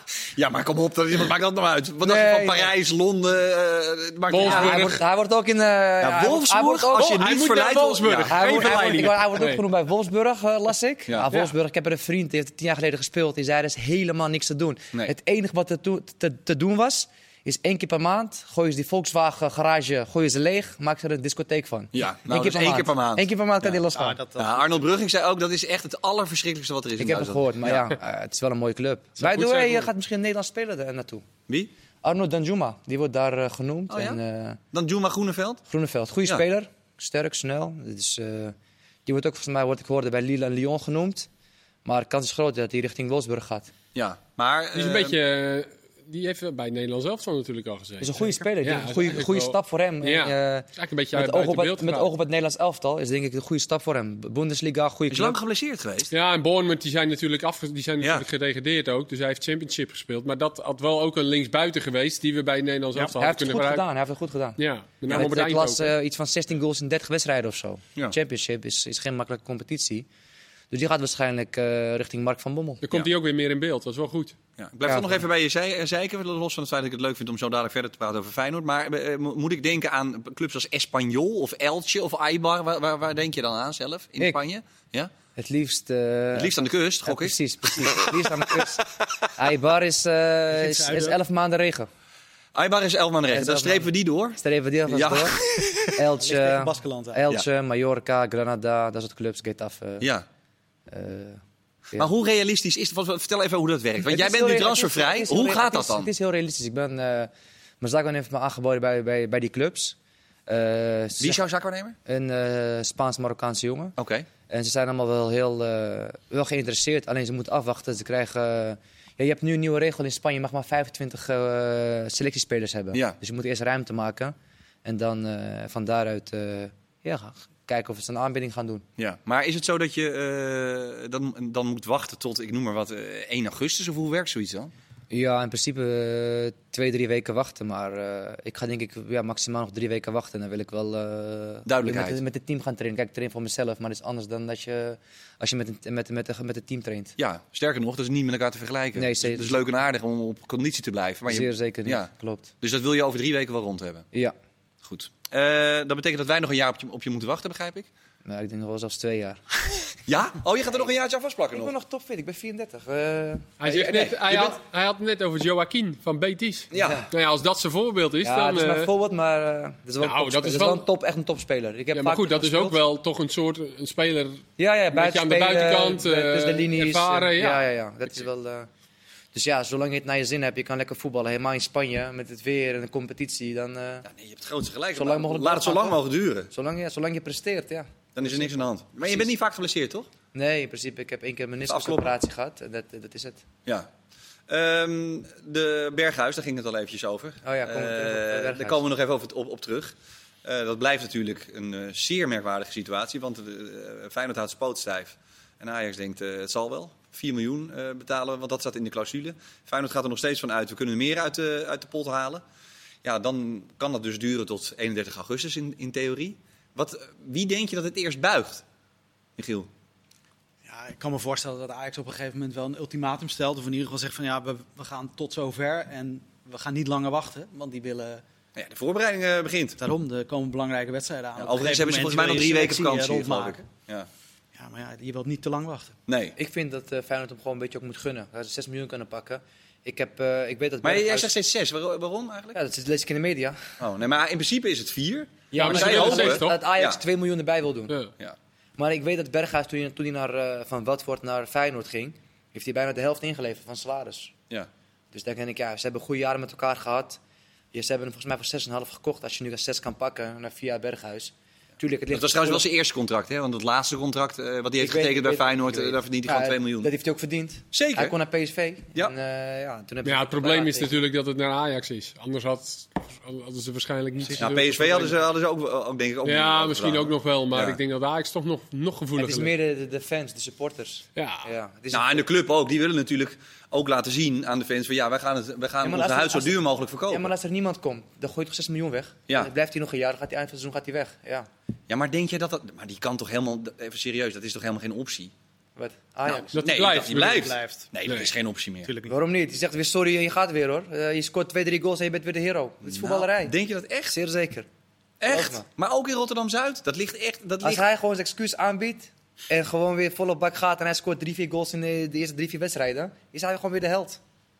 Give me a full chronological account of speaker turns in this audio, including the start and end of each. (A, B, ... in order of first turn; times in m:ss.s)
0:00.3-0:04.9 A
0:02.0-0:02.7 B
0:04.3-0:05.0 C
0:04.3-0:07.3 B
0:06.0-0:08.6 A
0:06.9-0:09.6 C
0:08.2-0:24.2 B
0:08.4-0:09.2 D
0:11.1-0:11.3 A
0:21.9-0:23.8 A
0:23.9-0:24.7 D
0:24.3-0:27.9 A
0:27.0-0:31.2 B
0:29.2-0:29.9 C
0:32.0-0:34.6 B
0:33.9-0:34.2 A
0:34.7-0:35.6 A
0:35.7-0:38.5 B
0:39.0-0:41.3 B
0:41.8-0:43.7 B
0:43.9-0:45.2 A
0:44.7-0:52.1 C
0:48.0-0:55.4 B
0:55.1-0:56.1 A
0:56.1-1:03.8 C
0:58.0-0:58.2 A
1:03.1-1:04.6 B
1:04.6-1:05.9 C
1:05.1-1:10.0 B
1:10.7-1:12.8 B
1:12.8-1:14.4 C
1:14.6-1:25.1 A
1:14.8-1:15.2 B
1:25.3-1:31.9 B
1:26.3-1:28.1 A
1:30.5-1:31.2 D
1:32.5-1:36.0 A
1:33.3-1:40.1 B
1:36.2-1:37.2 D
1:40.0-1:40.2 A
1:40.9-1:41.4 B
1:42.0-1:46.1 A
1:44.0-1:50.0 B
1:50.5-1:51.4 B
1:51.2-1:52.0 A
1:52.0-1:54.0 B
1:54.0-1:54.3 A
1:54.5-2:08.8 B
2:09.0-2:14.7 A
2:15.1-2:27.2 B
2:21.6-2:22.2 A
2:27.2-2:32.1 A
2:28.9-2:29.6 B
2:31.3-2:32.5 B
2:32.6-2:34.1 A
2:34.8-2:37.9 A
2:38.2-2:39.6 B
2:40.1-2:41.7 A
2:41.5-2:44.6 B
2:43.6-2:48.9 C
2:46.7-2:47.0 A
2:46.7-2:47.1 B
2:48.2-2:52.8 B
2:50.0-2:50.8 C
2:51.9-2:54.4 C
2:54.6-2:58.7 B
2:54.9-2:57.7 C
2:59.3-3:04.0 B
3:04.0-3:06.5 A
3:04.9-3:06.0 B
3:06.5-3:09.3 B
3:08.1-3:10.1 A
3:10.3-3:13.4 B
3:11.7-3:12.1 A
3:14.5-3:32.4 A
3:17.4-3:18.8 B
3:33.0-3:38.6 A
3:39.4-3:39.7 A
3:40.6-3:48.2 D
3:48.5-3:49.8 A
3:49.8-3:53.6 D
3:51.4-3:54.1 A
3:54.5-3:56.0 D
3:56.1-3:56.4 A
3:56.4-4:01.3 B
4:00.8-4:02.6 A
4:02.5-4:03.6 B
4:03.8-4:07.0 A
4:05.5-4:08.0 B
4:05.6-4:06.6 C
4:08.8-4:14.3 B
4:15.1-4:17.2 B
4:17.7-4:22.6 B
4:22.1-4:26.9 A
4:24.8-4:31.0 B
4:27.7-4:28.2 A
4:30.0-4:35.1 C
4:34.4-4:37.8 A
4:36.2-4:39.5 C
4:39.2-4:42.3 B
4:41.2-4:41.5 C
4:41.9-4:47.3 A
4:45.8-4:51.5 B
4:51.9-4:55.3 A
4:55.8-4:56.6 B
4:56.2-4:58.9 A
4:56.5-4:57.5 C
4:57.0-4:57.8 D
4:58.8-4:59.1 D
4:59.1-5:03.5 B
5:02.8-5:04.2 A
5:04.1-5:04.7 B
5:05.2-5:07.8 A
5:05.2-5:05.6 B
5:07.6-5:14.2 B